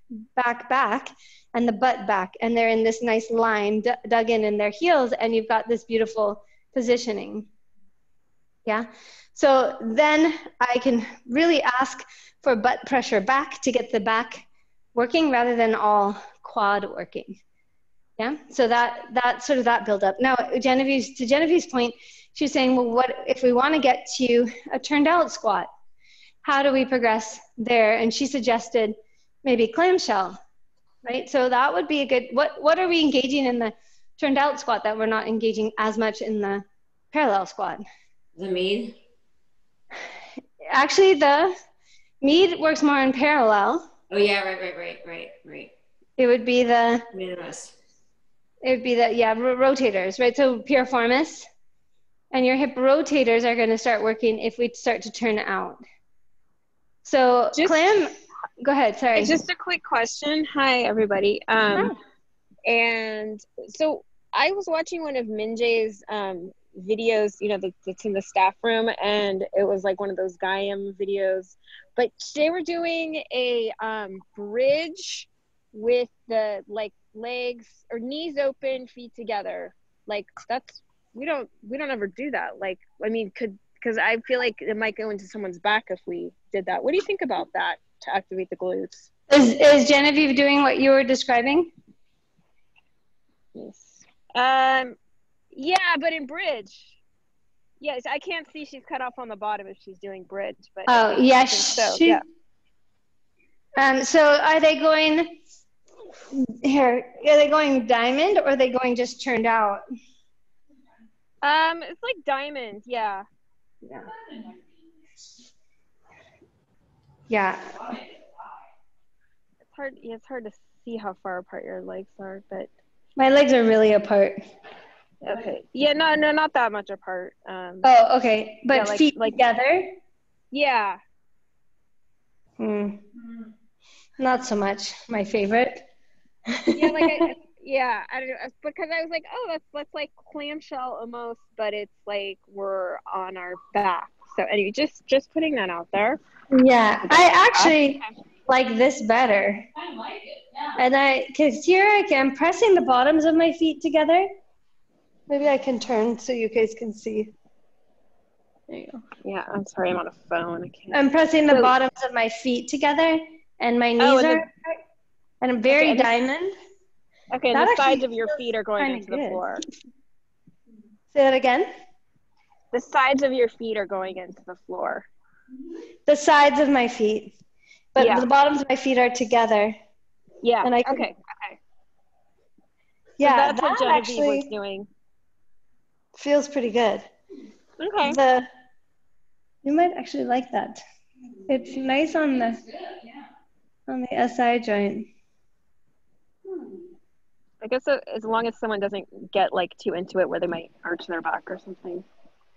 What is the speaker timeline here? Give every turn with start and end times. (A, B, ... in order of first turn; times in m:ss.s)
0:00.4-0:07.5 A
0:08.6-0:17.4 A
0:18.2-0:25.7 A
0:26.4-0:30.4 A
0:31.0-0:37.8 A
0:38.4-0:39.0 B
0:40.7-0:41.5 A
0:42.2-0:43.9 A
0:44.1-0:45.7 B
0:46.2-0:47.1 A
0:47.1-0:47.7 B
0:48.6-0:51.5 A
0:52.3-0:55.8 A
0:57.0-0:59.3 A
0:57.5-0:57.8 C
0:59.1-1:01.9 C
1:02.6-1:29.1 C
1:29.3-1:31.7 A
1:33.5-1:35.0 C
1:35.5-1:37.0 C
1:37.8-1:42.2 C
1:40.9-1:42.2 A
1:43.8-1:45.4 A
1:46.3-1:49.8 A
1:51.4-1:53.2 C
1:54.0-1:55.2 D
1:57.3-1:57.7 A
1:57.7-1:58.3 D
1:59.6-2:02.7 C
2:03.2-2:04.4 A
2:05.2-2:07.9 C
2:07.8-2:09.9 A
2:08.7-2:09.4 C
2:10.5-2:11.0 C
2:12.6-2:13.0 A
2:14.2-2:15.8 A
2:16.5-2:17.3 A
2:16.7-2:26.2 C
2:26.5-2:29.6 A
2:27.0-2:28.2 C
2:29.8-2:30.8 D
2:30.8-2:34.3 A
2:35.3-2:37.3 A
2:38.7-2:41.7 C
2:40.9-2:44.5 A
2:44.0-2:44.4 C
2:45.4-2:46.5 A
2:45.7-2:46.1 C
2:47.3-2:49.6 C
2:47.5-2:49.6 A
2:51.1-2:51.7 A
2:52.7-2:55.1 C
2:56.0-2:57.3 A
2:57.9-2:59.7 A
2:58.0-2:58.3 C
3:00.4-3:01.6 C
3:00.6-3:01.1 A
3:03.2-3:04.5 A
3:03.2-3:04.9 C
3:06.2-3:07.1 A
3:07.8-3:08.2 C
3:08.0-3:08.5 A
3:09.6-3:10.8 A
3:11.5-3:12.6 A
3:12.6-3:13.2 D
3:13.9-3:15.1 A
3:17.6-3:22.0 C